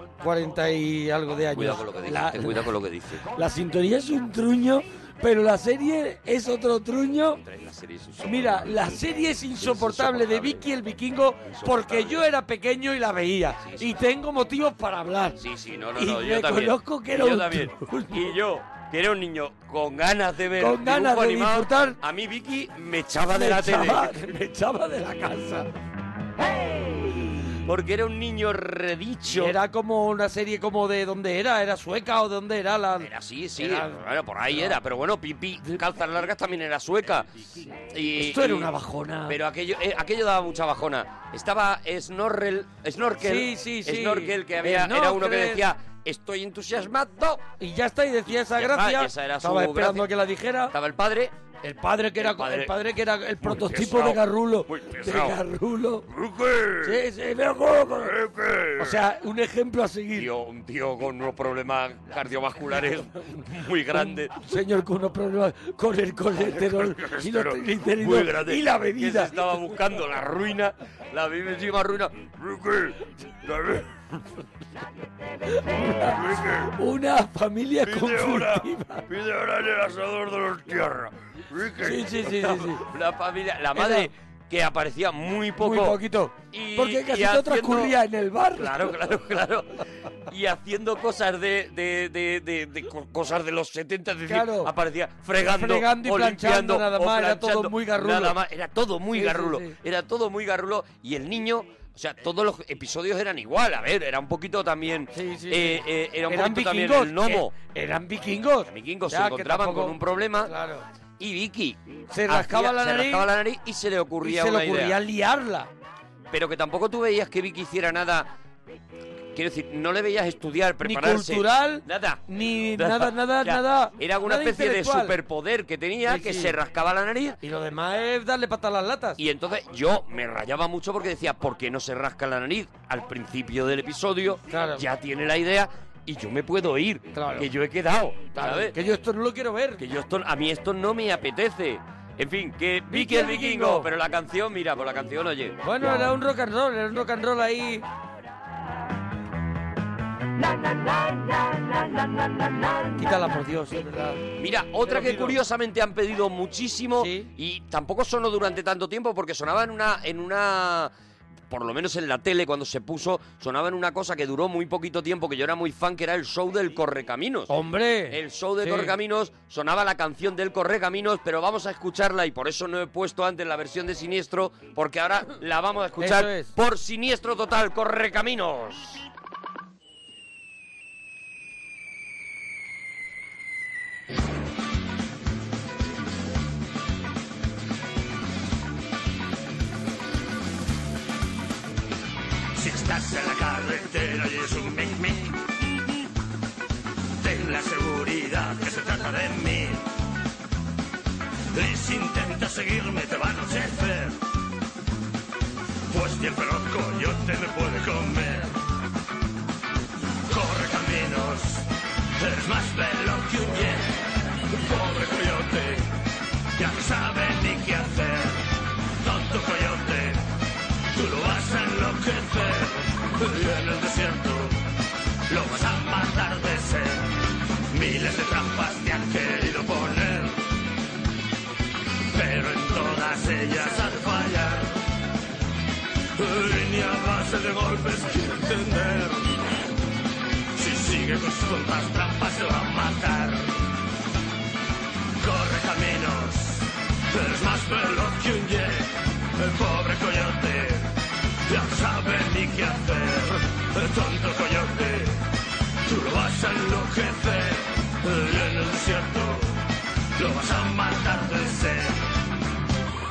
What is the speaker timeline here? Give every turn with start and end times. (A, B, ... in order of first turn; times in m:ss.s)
0:00.2-0:02.6 A
0:01.5-0:03.3 B
0:03.3-0:07.4 A
0:07.4-0:10.7 B
0:08.2-0:15.4 A
0:11.5-0:12.3 B
0:13.6-0:14.0 B
0:15.4-0:24.2 B
0:16.0-0:18.4 A
0:20.6-0:22.0 A
0:23.3-0:25.7 A
0:26.5-0:29.6 B
0:29.3-0:34.8 A
0:33.0-0:38.7 B
0:38.2-0:39.4 A
0:39.3-0:47.4 B
0:43.2-0:45.6 A
0:47.6-0:50.7 A
0:48.3-0:50.1 B
0:50.7-0:51.3 B
0:51.6-0:56.1 A
0:52.2-0:52.8 B
0:53.4-0:55.4 B
0:56.1-0:57.0 B
0:56.8-0:58.1 A
0:58.0-0:59.0 B
0:58.8-1:00.3 A
1:00.2-1:04.3 B
1:04.0-1:09.4 A
1:06.4-1:13.9 B
1:15.5-1:19.1 A
1:15.7-1:16.7 B
1:17.8-1:26.0 B
1:21.8-1:22.9 A
1:23.8-1:24.1 A
1:25.6-1:29.0 A
1:26.5-1:28.0 B
1:28.6-1:47.5 B
1:34.3-1:34.7 A
1:35.4-1:38.4 A
1:39.2-1:39.8 A
1:45.1-1:50.8 A
1:48.7-1:50.5 B
1:51.2-1:55.0 B
1:52.1-1:53.3 A
1:54.2-1:55.7 A
1:56.3-1:58.3 B
1:59.3-2:07.4 B
2:00.8-2:05.2 A
2:06.1-2:06.6 A
2:07.4-2:09.2 A
2:09.2-2:18.8 B
2:14.5-2:14.8 A
2:17.1-2:17.5 A
2:18.4-2:19.8 A
2:19.8-2:26.1 B
2:22.9-2:23.9 A
2:25.6-2:27.8 A
2:30.4-2:33.0 B
2:33.0-2:34.2 A
2:34.4-2:40.9 B
2:34.9-2:35.4 A
2:37.0-2:37.3 A
2:41.5-2:47.5 B
2:47.5-2:48.9 A
2:48.1-2:59.0 B
2:56.0-2:56.5 A
3:12.6-3:15.4 C
3:17.2-3:19.8 C
3:21.5-3:24.2 C
3:25.9-3:28.5 C
3:30.3-3:35.9 C
3:36.6-3:40.2 C
3:40.9-3:44.6 C
3:45.3-3:47.2 C
3:47.7-3:50.4 C
3:52.1-3:54.7 C
3:56.2-3:59.4 C
4:00.6-4:03.6 C
4:05.2-4:10.9 C
4:11.4-4:15.2 C
4:15.8-4:19.6 C
4:20.2-4:22.0 C